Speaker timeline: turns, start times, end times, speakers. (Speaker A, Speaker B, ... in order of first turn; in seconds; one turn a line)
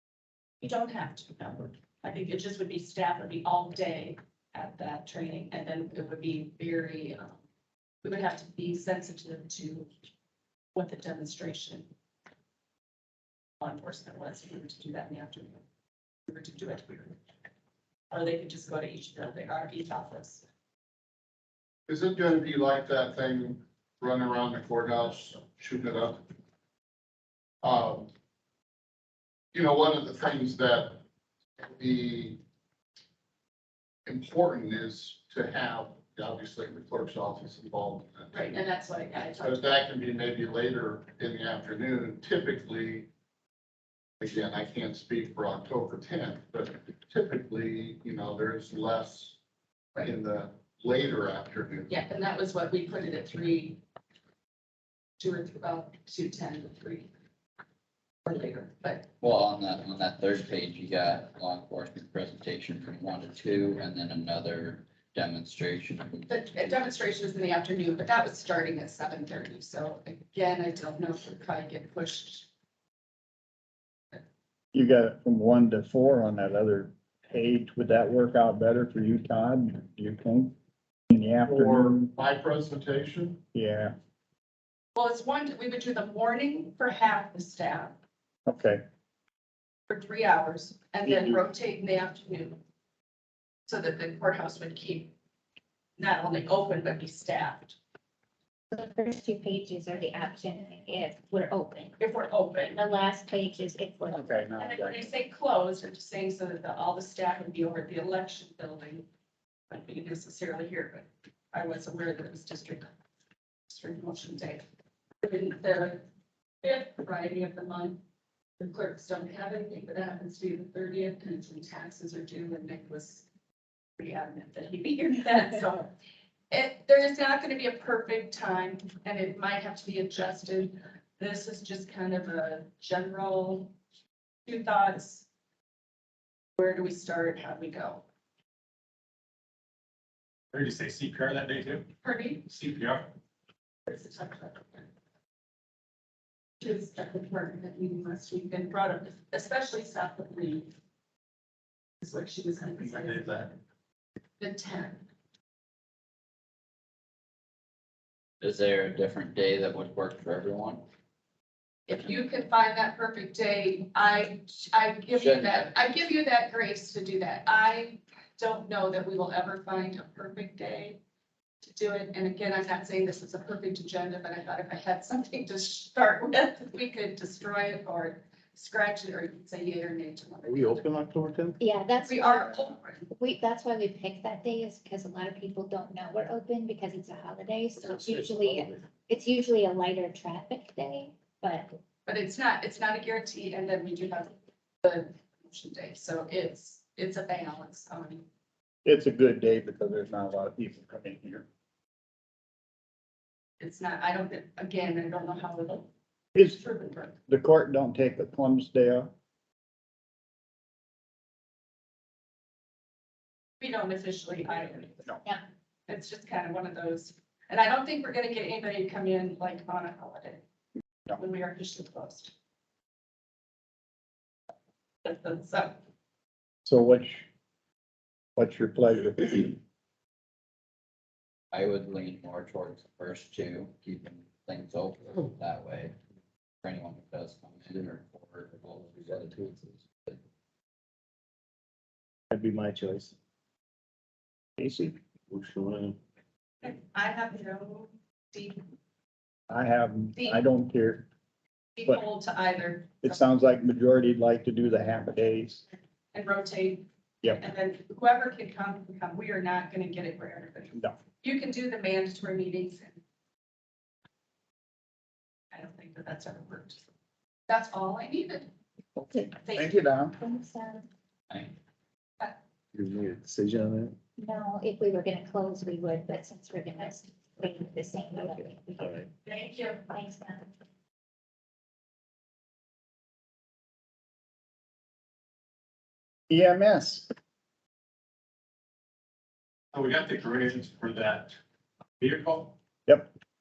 Speaker A: 0.6-7.4
Speaker A: 8.0-9.9
Speaker A: 10.7-11.9
Speaker A: 13.6-15.6
Speaker A: 16.3-17.2
Speaker A: 18.1-20.4
Speaker B: 21.9-26.3
Speaker B: 27.6-28.1
Speaker B: 29.5-31.0
Speaker B: 31.6-32.4
Speaker B: 34.1-38.3
Speaker A: 38.3-39.6
Speaker B: 39.4-43.1
Speaker B: 44.2-49.4
Speaker B: 50.0-51.9
Speaker A: 51.9-53.8
Speaker A: 55.2-57.1
Speaker A: 58.2-59.1
Speaker C: 59.2-66.7
Speaker A: 66.3-72.5
Speaker D: 74.7-80.5
Speaker D: 81.1-82.1
Speaker B: 81.4-83.4
Speaker D: 83.5-83.9
Speaker A: 85.0-88.0
Speaker D: 88.5-88.8
Speaker A: 89.9-92.6
Speaker D: 91.0-91.4
Speaker A: 93.7-95.1
Speaker A: 96.0-97.8
Speaker E: 98.7-102.0
Speaker A: 102.0-102.8
Speaker E: 102.7-104.2
Speaker D: 104.1-105.0
Speaker A: 104.6-109.1
Speaker A: 109.7-112.9
Speaker A: 113.7-114.6
Speaker A: 115.2-116.0
Speaker A: 116.6-118.0
Speaker A: 118.6-123.3
Speaker A: 124.0-125.9
Speaker A: 126.5-133.7
Speaker A: 134.5-135.3
Speaker A: 136.6-138.0
Speaker F: 140.5-141.9
Speaker A: 142.0-142.4
Speaker F: 142.5-143.1
Speaker A: 143.9-144.9
Speaker A: 146.6-150.7
Speaker A: 152.0-153.6
Speaker F: 152.8-153.4
Speaker A: 154.4-155.1
Speaker C: 158.4-160.8
Speaker A: 161.9-171.0
Speaker C: 165.1-165.8
Speaker A: 171.6-180.9
Speaker G: 180.4-181.6
Speaker E: 181.6-191.7
Speaker A: 182.0-183.1
Speaker G: 187.8-188.8
Speaker A: 192.1-198.2
Speaker D: 198.8-201.5
Speaker A: 203.6-205.9
Speaker D: 206.3-206.6
Speaker A: 206.5-207.1
Speaker D: 207.3-209.1
Speaker A: 213.6-215.1
Speaker C: 214.5-214.8
Speaker A: 215.9-220.4
Speaker A: 221.2-222.3
Speaker A: 225.0-225.8
Speaker D: 226.7-227.3
Speaker D: 228.4-229.6
Speaker C: 231.5-235.9
Speaker C: 236.6-240.2
Speaker G: 242.3-243.1
Speaker D: 244.6-245.0
Speaker G: 245.3-246.0
Speaker A: 246.6-248.6
Speaker D: 249.5-251.1
Speaker A: 251.8-253.2
Speaker D: 253.0-255.6
Speaker A: 256.1-263.0
Speaker A: 265.5-266.9
Speaker A: 267.5-268.5
Speaker D: 269.0-270.2
Speaker A: 269.4-269.8
Speaker E: 270.2-270.9
Speaker C: 271.3-271.5
Speaker G: 272.7-273.9
Speaker E: 274.2-279.0
Speaker G: 278.8-279.1
Speaker A: 279.2-279.8
Speaker E: 279.9-280.5
Speaker D: 286.3-287.1
Speaker F: 289.7-291.4
Speaker F: 292.0-292.6